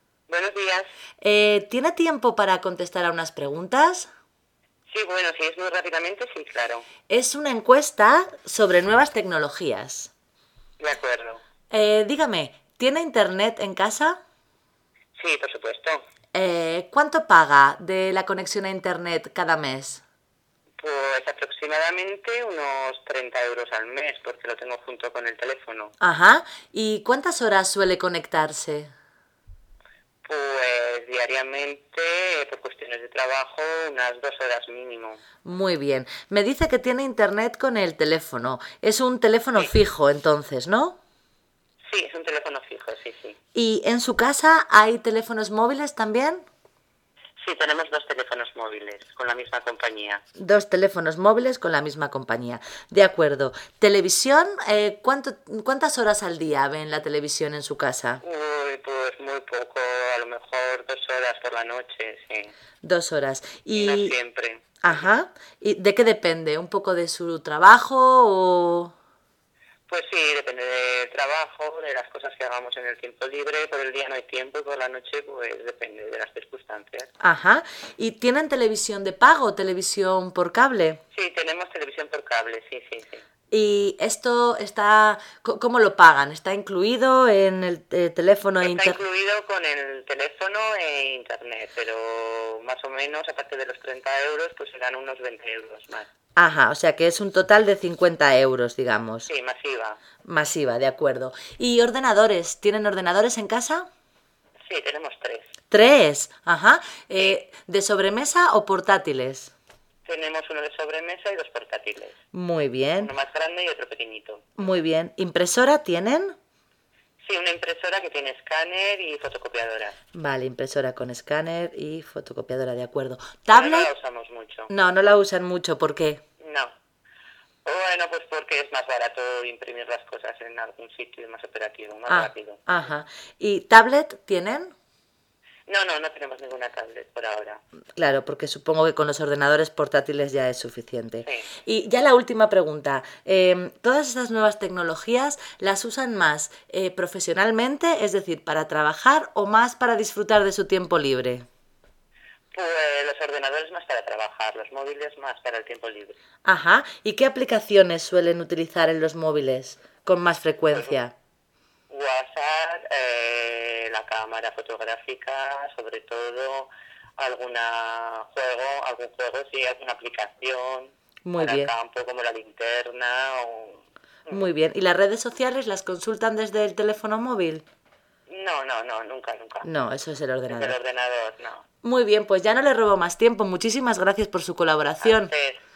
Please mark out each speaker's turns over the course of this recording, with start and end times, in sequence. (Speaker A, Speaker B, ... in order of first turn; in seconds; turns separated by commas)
Speaker A: 0.3-0.9, Speaker B: 1.2-4.1, Speaker A: 4.9-6.9, Speaker B: 7.1-10.1, Speaker A: 10.8-11.4, Speaker B: 11.7-14.2, Speaker A: 15.2-16.0, Speaker B: 16.3-20.0, Speaker A: 20.8-25.9, Speaker B: 26.0-28.9, Speaker A: 30.2-35.2, Speaker B: 35.4-41.0, Speaker A: 41.9-43.4, Speaker B: 43.5-46.4, Speaker A: 47.4-50.2, Speaker B: 50.4-58.2, Speaker A: 58.2-62.5, Speaker B: 62.8-64.1, Speaker A: 63.7-65.1, Speaker B: 64.8-68.9, Speaker A: 69.9-77.1, Speaker B: 77.2-81.0, Speaker A: 81.1-83.2, Speaker B: 83.5-89.0, Speaker A: 88.6-96.1, Speaker B: 96.3-99.3, Speaker A: 99.3-100.0, Speaker B: 100.2-103.9, Speaker A: 104.7-105.5, Speaker B: 105.7-109.5, Speaker A: 110.0-112.2, Speaker B: 112.3-113.1, Speaker A: 113.0-114.5, Speaker B: 114.6-116.3, Speaker A: 117.2-120.0, Speaker B: 120.1-123.9, Speaker A: 123.5-124.7, Speaker B: 124.7-126.2, Speaker A: 126.4-126.7, Speaker A: 127.6-132.6, Speaker B: 132.1-134.7, Speaker A: 135.7-137.6, Speaker B: 138.0-151.4, Speaker A: 141.2-141.5, Speaker A: 152.5-156.2, Speaker B: 156.4-161.1, Speaker A: 160.7-161.0, Speaker A: 161.9-174.5, Speaker B: 171.2-171.7, Speaker B: 174.3-177.6, Speaker A: 178.3-179.7, Speaker B: 179.6-180.8, Speaker A: 180.5-181.6, Speaker B: 181.8-185.3, Speaker A: 185.0-185.6